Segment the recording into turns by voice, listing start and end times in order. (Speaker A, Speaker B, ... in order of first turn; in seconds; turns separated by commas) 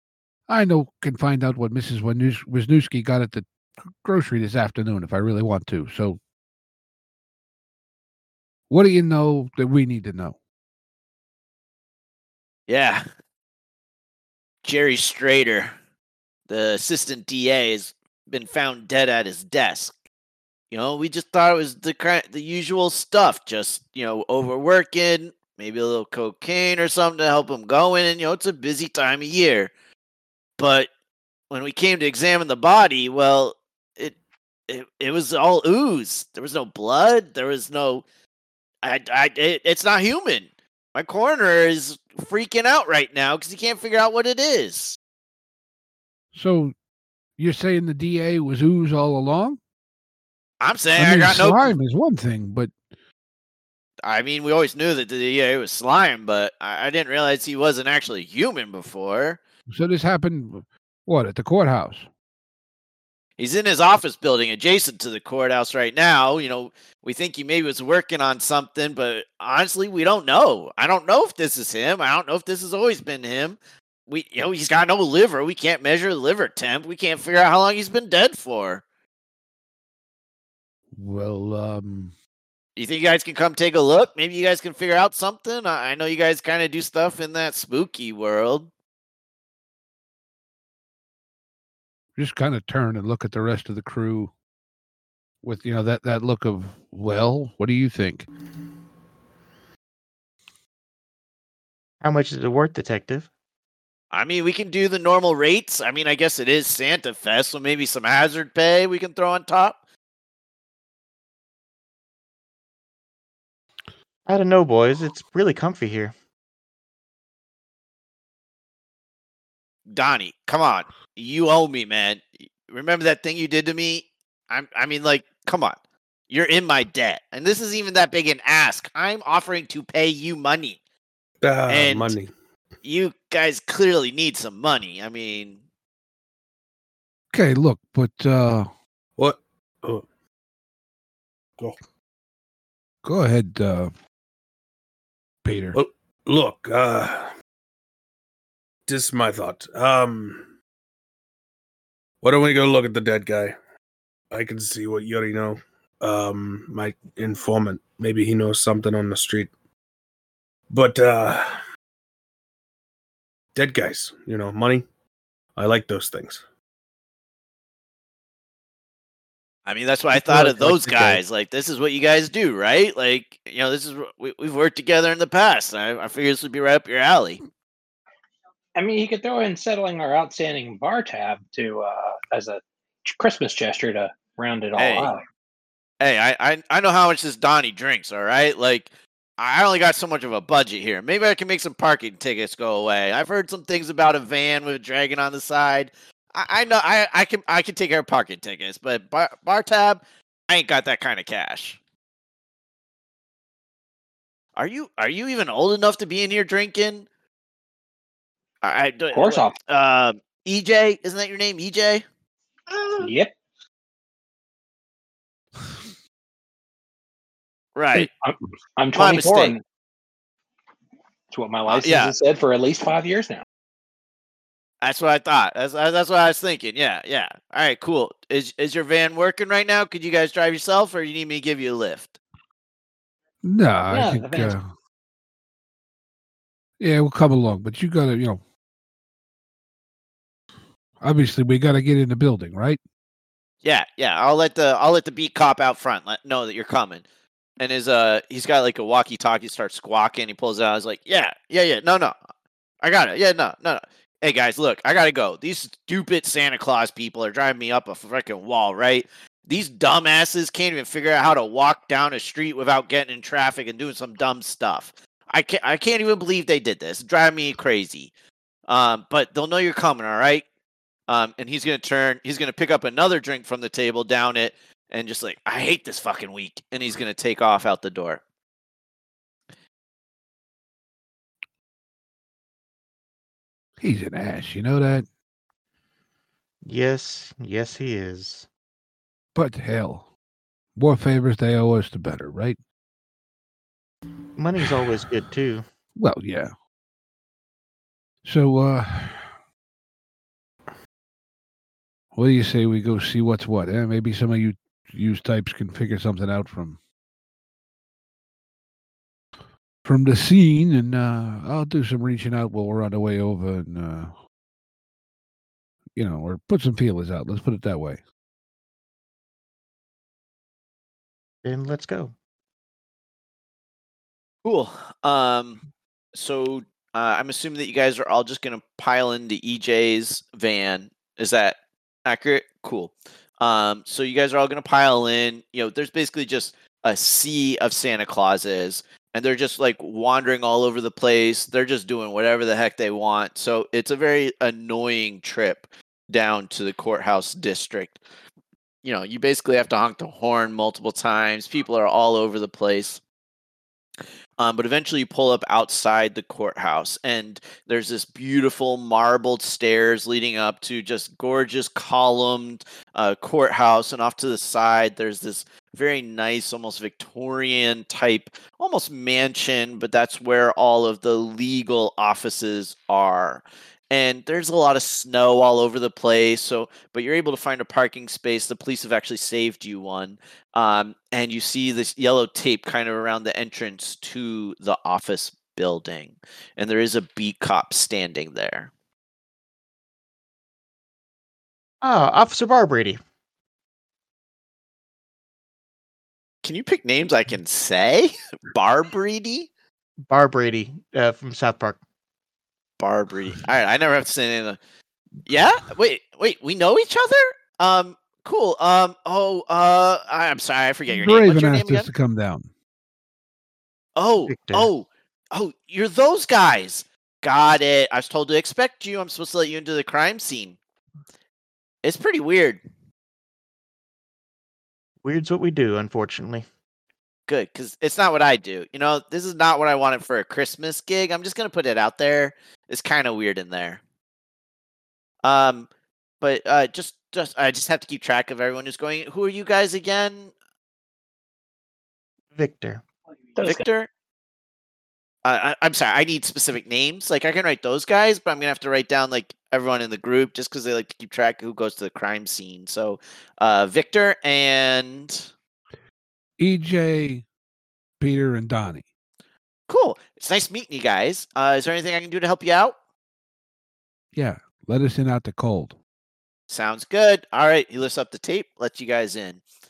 Speaker A: 0.5-6.2, Speaker A: 8.7-10.3, Speaker B: 12.7-13.0, Speaker B: 14.6-15.8, Speaker B: 16.5-19.9, Speaker B: 20.7-29.7, Speaker B: 30.6-30.9, Speaker B: 31.5-34.1, Speaker B: 34.7-38.0, Speaker B: 38.8-45.0, Speaker A: 46.3-46.7, Speaker A: 47.4-49.6, Speaker B: 50.6-51.7, Speaker A: 50.9-52.7, Speaker B: 54.0-59.4, Speaker A: 59.7-62.1, Speaker B: 63.4-78.8, Speaker A: 80.9-82.1, Speaker B: 82.8-88.7, Speaker A: 92.2-94.3, Speaker A: 95.4-98.3, Speaker C: 102.0-103.3, Speaker B: 104.1-109.8, Speaker C: 114.3-116.1, Speaker B: 119.9-125.8, Speaker B: 126.3-130.8, Speaker D: 131.4-132.3, Speaker B: 131.7-132.2, Speaker B: 132.8-135.6, Speaker A: 137.3-138.7, Speaker D: 139.2-140.1, Speaker A: 143.0-143.9, Speaker A: 145.4-145.8, Speaker D: 145.7-147.3, Speaker D: 148.9-150.5, Speaker D: 152.2-153.5, Speaker D: 154.3-159.5, Speaker D: 160.7-161.5, Speaker D: 163.5-164.8, Speaker D: 165.6-166.4, Speaker B: 169.7-177.4, Speaker D: 170.2-171.2, Speaker E: 178.8-185.2, Speaker B: 184.8-185.1, Speaker B: 186.0-201.8, Speaker B: 204.6-207.1, Speaker B: 208.6-212.0, Speaker E: 209.1-209.5, Speaker B: 212.8-213.0, Speaker E: 213.0-213.3, Speaker B: 217.8-218.1, Speaker E: 217.9-219.6, Speaker B: 218.9-219.6, Speaker E: 221.3-223.4, Speaker B: 221.7-222.1, Speaker B: 224.8-232.2, Speaker A: 233.4-234.7, Speaker E: 233.9-234.5, Speaker A: 236.8-238.4, Speaker A: 241.0-242.8, Speaker B: 243.6-247.0, Speaker B: 247.6-252.2, Speaker B: 252.8-268.1, Speaker B: 268.7-270.4, Speaker B: 271.1-278.2, Speaker A: 283.8-285.1, Speaker C: 286.6-288.5, Speaker A: 289.3-290.1, Speaker A: 290.7-292.6, Speaker C: 294.4-295.6, Speaker A: 295.9-296.5, Speaker A: 298.2-299.3, Speaker A: 302.1-306.8, Speaker A: 309.8-314.1, Speaker A: 315.9-318.0, Speaker C: 321.4-322.1, Speaker B: 324.4-325.6, Speaker B: 326.1-348.0, Speaker B: 348.8-353.0, Speaker B: 354.4-388.7, Speaker C: 391.8-393.0, Speaker B: 396.4-399.5, Speaker C: 400.1-401.8, Speaker B: 402.8-404.6, Speaker B: 405.2-411.9, Speaker A: 410.9-412.5, Speaker B: 413.9-420.6, Speaker C: 414.3-414.7, Speaker B: 421.8-422.6, Speaker C: 425.0-426.4, Speaker B: 427.3-433.8, Speaker B: 435.2-435.7, Speaker B: 436.2-440.3, Speaker C: 442.3-442.8, Speaker E: 443.4-443.6, Speaker B: 443.4-443.9, Speaker B: 445.2-455.3, Speaker A: 456.4-457.2, Speaker A: 458.0-458.8, Speaker B: 459.7-462.7, Speaker A: 464.1-465.8, Speaker B: 466.5-469.4